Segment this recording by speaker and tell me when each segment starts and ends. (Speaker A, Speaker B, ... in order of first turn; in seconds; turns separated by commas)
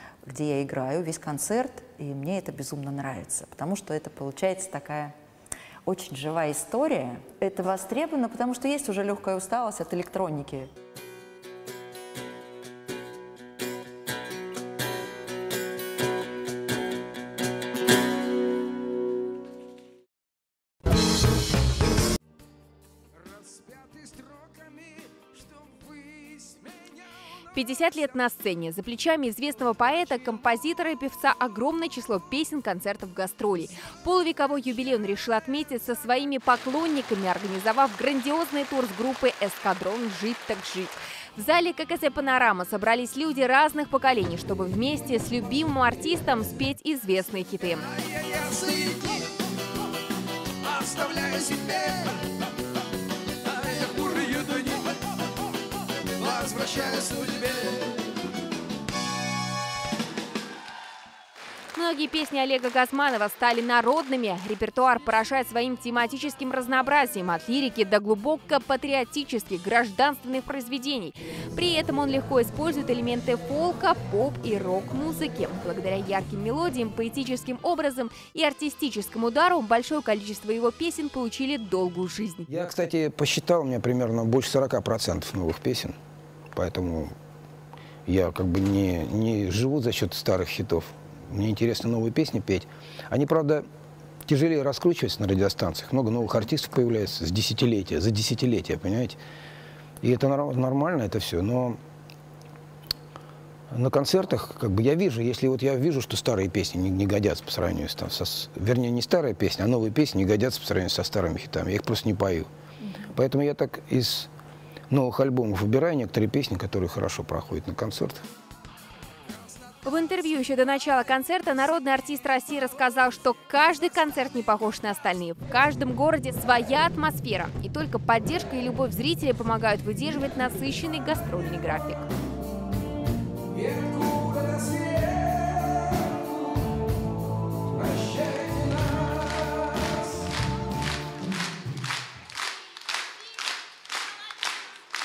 Speaker A: 0.3-5.2, Speaker A: 5.9-10.7, Speaker B: 27.5-47.9, Speaker C: 50.8-52.0, Speaker C: 53.8-54.6, Speaker C: 56.3-57.4, Speaker B: 61.7-82.5, Speaker C: 82.5-86.0, Speaker C: 86.5-87.2, Speaker C: 88.1-93.7, Speaker C: 94.3-99.2, Speaker C: 100.0-101.8, Speaker C: 103.7-112.5, Speaker C: 113.1-114.3, Speaker C: 114.9-118.2, Speaker B: 119.8-132.1, Speaker C: 133.8-135.0